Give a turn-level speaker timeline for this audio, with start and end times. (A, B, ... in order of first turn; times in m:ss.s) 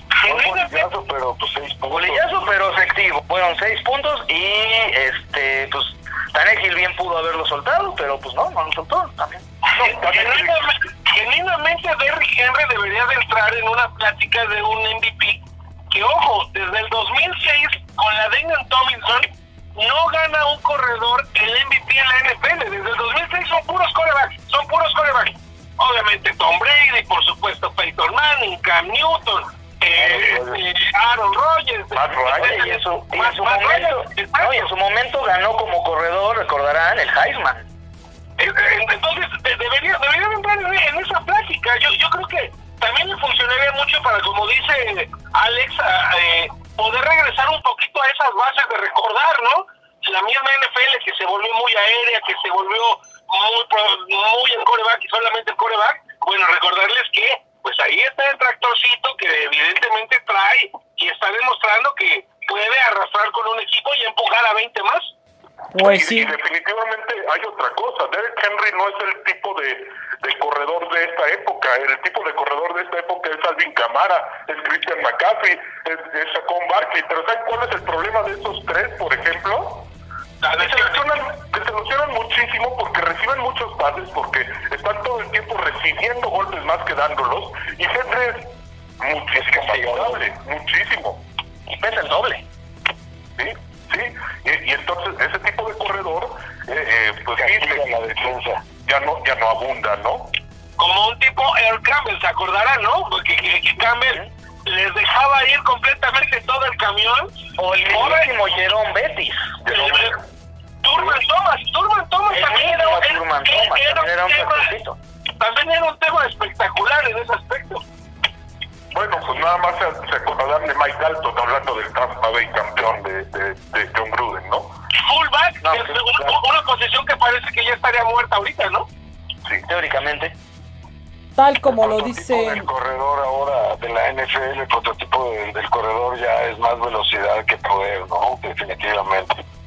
0:00.2-0:00.9 A
0:00.2-0:02.2 B
0:01.9-0:09.4 C
0:09.7-0:10.7 D
0:09.7-0:34.7 A
0:30.0-0:30.6 B
0:31.9-0:32.6 D
0:32.3-0:37.7 C
0:38.4-1:05.1 A
1:05.7-1:06.3 E
1:05.8-1:19.9 D
1:20.4-1:21.0 A
1:20.6-1:31.2 D
1:29.3-1:30.3 B
1:31.7-1:32.4 C
1:33.4-1:38.2 D
1:37.4-1:38.6 B
1:38.8-1:40.3 D
1:40.8-1:48.3 A
1:47.6-1:49.6 C
1:49.7-1:50.2 A
1:50.8-1:54.7 A
1:52.3-1:55.0 C
1:55.4-1:57.8 A
1:58.9-2:04.7 D
2:05.0-2:08.9 A
2:05.6-2:06.4 C
2:09.6-2:10.3 C
2:11.4-2:12.7 E
2:11.7-2:19.4 B